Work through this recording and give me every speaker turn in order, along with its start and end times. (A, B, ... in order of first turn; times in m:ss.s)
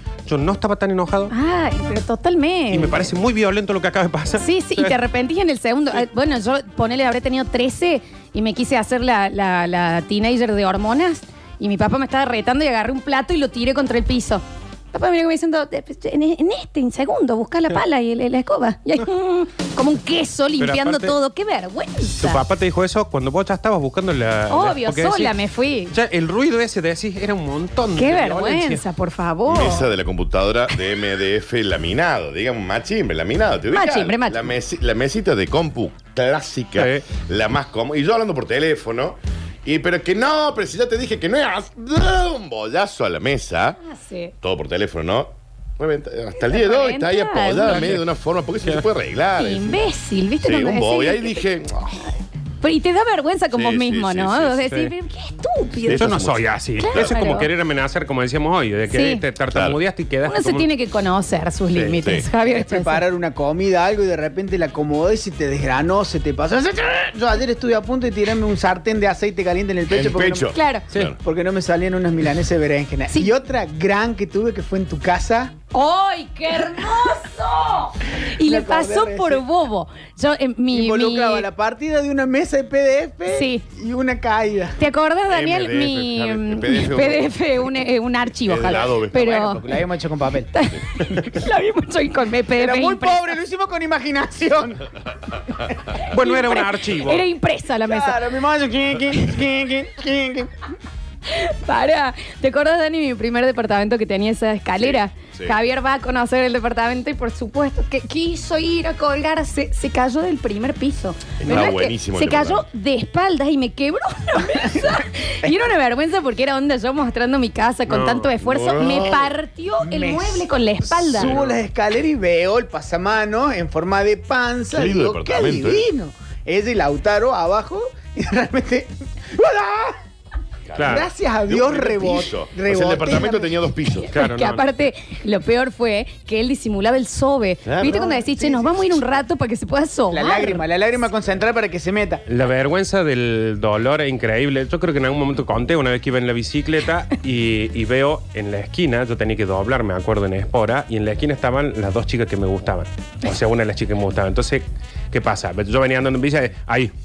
0:00.2-0:01.3 A
0:01.3-0:03.1 B
0:02.7-0:04.9 A
0:04.3-0:22.4 B
0:20.6-0:21.2 A
0:22.2-0:25.3 A
0:24.5-0:25.9 B
0:25.9-0:28.8 A
0:28.0-0:29.8 B
0:29.5-0:43.8 C
0:33.7-0:34.5 B
0:36.8-0:37.0 A
0:43.8-0:44.3 B
0:44.4-0:49.8 C
0:46.4-0:48.0 B
0:47.7-0:48.0 A
0:49.4-0:51.4 B
0:50.4-0:52.1 C
0:52.6-0:57.5 B
0:53.5-0:54.7 C
0:55.8-0:57.1 C
0:55.9-1:00.7 A
0:58.9-0:59.2 B
0:59.5-0:59.8 C
1:00.2-1:03.0 B
1:01.7-1:02.3 C
1:02.4-1:10.5 D
1:09.9-1:11.2 C
1:10.5-1:10.8 B
1:11.2-1:15.6 D
1:15.7-1:21.5 B
1:18.4-1:19.4 D
1:20.7-1:24.8 D
1:23.3-1:23.7 B
1:24.8-1:29.8 B
1:25.3-1:27.7 C
1:28.4-1:29.2 C
1:29.1-1:30.5 D
1:30.5-1:33.3 B
1:32.5-1:34.8 D
1:36.1-1:37.2 A
1:36.1-1:38.2 B
1:37.8-1:40.5 D
1:41.3-2:01.4 B
1:44.8-1:45.6 C
1:51.4-1:52.6 C
1:57.9-1:58.3 A
1:58.4-1:59.4 C
1:59.8-2:00.4 D
2:01.0-2:10.0 D
2:04.7-2:05.8 C
2:10.7-2:14.1 C
2:10.8-2:11.0 A
2:10.8-2:13.5 D
2:14.1-2:20.6 B
2:14.1-2:14.6 A
2:17.6-2:17.9 C
2:17.8-2:18.9 D
2:20.1-2:22.2 D
2:22.3-2:36.9 A